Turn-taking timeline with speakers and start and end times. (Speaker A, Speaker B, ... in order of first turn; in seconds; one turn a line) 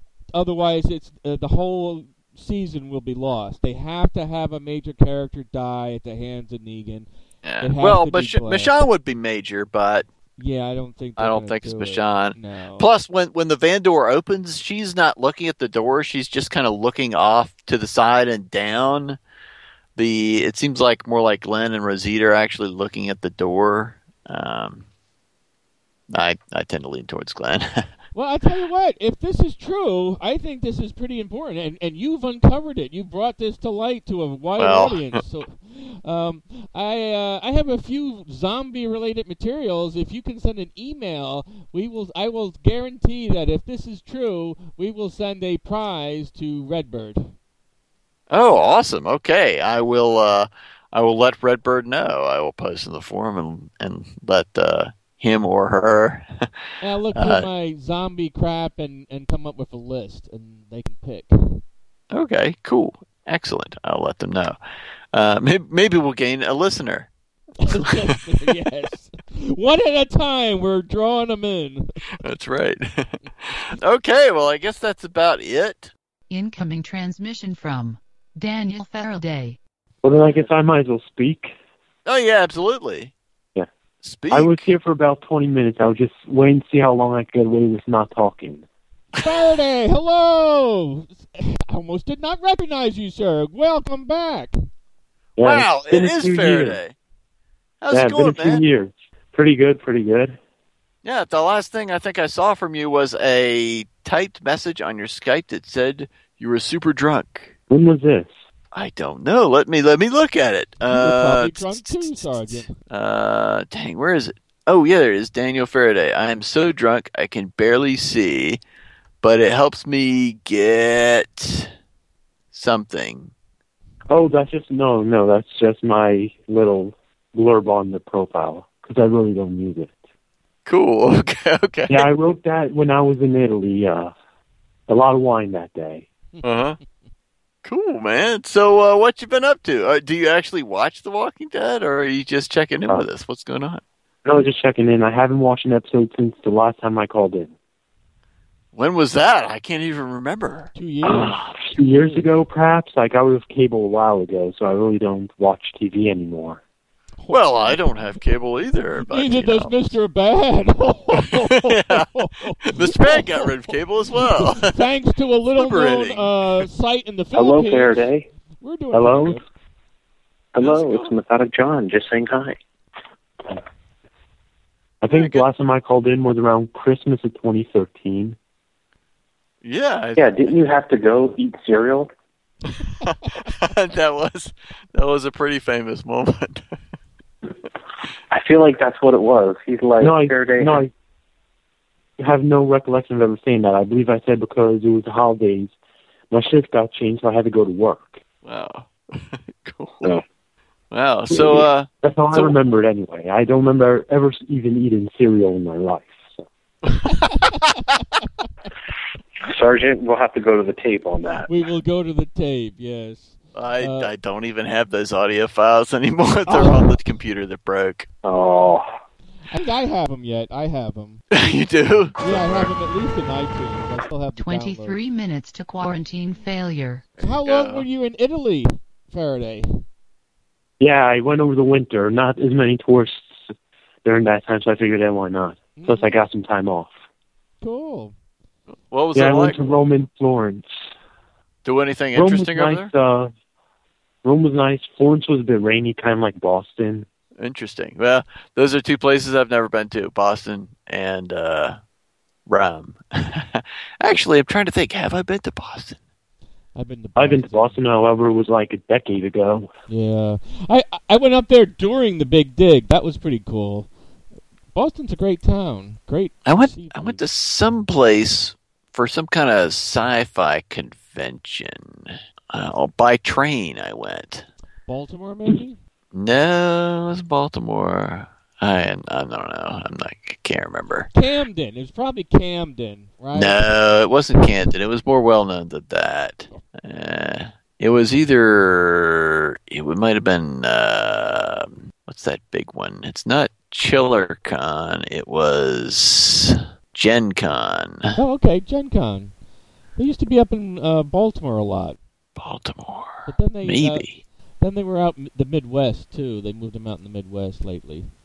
Speaker A: 0.3-8.7
Speaker B: 7.4-10.1
Speaker A: 10.4-12.9
Speaker B: 11.2-19.2
Speaker B: 20.0-24.9
Speaker B: 26.1-27.9
Speaker A: 28.1-47.3
Speaker B: 34.6-35.2
Speaker B: 48.3-56.2
Speaker A: 56.8-61.6
Speaker B: 57.1-57.5
Speaker B: 62.1-64.6
Speaker B: 65.1-67.1
Speaker A: 67.7-72.0
Speaker B: 72.2-75.9
Speaker C: 76.3-79.6
Speaker D: 80.0-81.5
Speaker B: 82.1-83.1
Speaker B: 84.0-84.7
Speaker D: 84.3-88.7
Speaker A: 89.2-94.5
Speaker D: 95.4-96.8
Speaker B: 95.4-97.0
Speaker B: 97.8-98.6
Speaker D: 97.9-100.4
Speaker B: 101.0-107.5
Speaker D: 107.7-108.4
Speaker B: 108.7-118.6
Speaker A: 110.9-112.7
Speaker B: 119.2-121.7
Speaker B: 122.5-123.3
Speaker D: 124.1-130.0
Speaker B: 130.7-132.1
Speaker D: 131.9-134.1
Speaker D: 134.9-136.1
Speaker A: 136.3-136.6
Speaker B: 136.4-136.8
Speaker B: 137.7-143.8
Speaker D: 144.3-147.5
Speaker B: 148.7-150.7
Speaker A: 150.8-152.3
Speaker D: 152.0-156.6
Speaker A: 157.2-158.1
Speaker B: 157.3-159.9
Speaker A: 159.1-163.7
Speaker B: 161.2-162.1
Speaker B: 162.8-164.7
Speaker A: 164.2-169.4
Speaker B: 165.6-166.3
Speaker E: 167.3-168.3
Speaker D: 168.9-169.4
Speaker E: 170.6-172.6
Speaker B: 170.6-171.1
Speaker D: 175.0-178.4
Speaker B: 175.1-175.4
Speaker B: 179.6-180.5
Speaker E: 180.2-182.1
Speaker B: 183.0-186.6
Speaker E: 188.3-190.8
Speaker D: 190.0-190.8
Speaker D: 192.2-195.7
Speaker D: 196.3-198.2
Speaker B: 198.4-200.2
Speaker B: 200.9-202.5
Speaker D: 201.3-206.5
Speaker E: 209.4-211.5
Speaker A: 211.5-214.1
Speaker B: 213.5-218.1
Speaker A: 216.5-216.9
Speaker E: 218.2-218.9
Speaker A: 219.5-221.2
Speaker B: 221.4-222.7
Speaker A: 222.2-225.0
Speaker C: 224.4-227.0
Speaker B: 227.2-227.9
Speaker A: 227.2-229.8
Speaker D: 230.8-233.5
Speaker D: 234.1-237.0
Speaker A: 235.8-236.2
Speaker A: 237.6-238.2
Speaker B: 238.9-239.6
Speaker D: 239.2-240.7
Speaker B: 241.7-242.9
Speaker D: 242.2-243.3
Speaker D: 244.2-247.1
Speaker B: 247.4-251.8
Speaker B: 252.5-256.0
Speaker A: 256.8-257.8
Speaker D: 257.2-259.7
Speaker A: 259.9-263.9
Speaker A: 264.7-267.2
Speaker B: 266.5-274.5
Speaker A: 274.9-275.8
Speaker B: 276.1-281.1
Speaker A: 281.1-283.6
Speaker B: 283.3-298.1
Speaker A: 298.1-299.4
Speaker A: 300.0-302.0
Speaker B: 302.4-304.2
Speaker A: 303.3-304.1
Speaker A: 304.6-308.1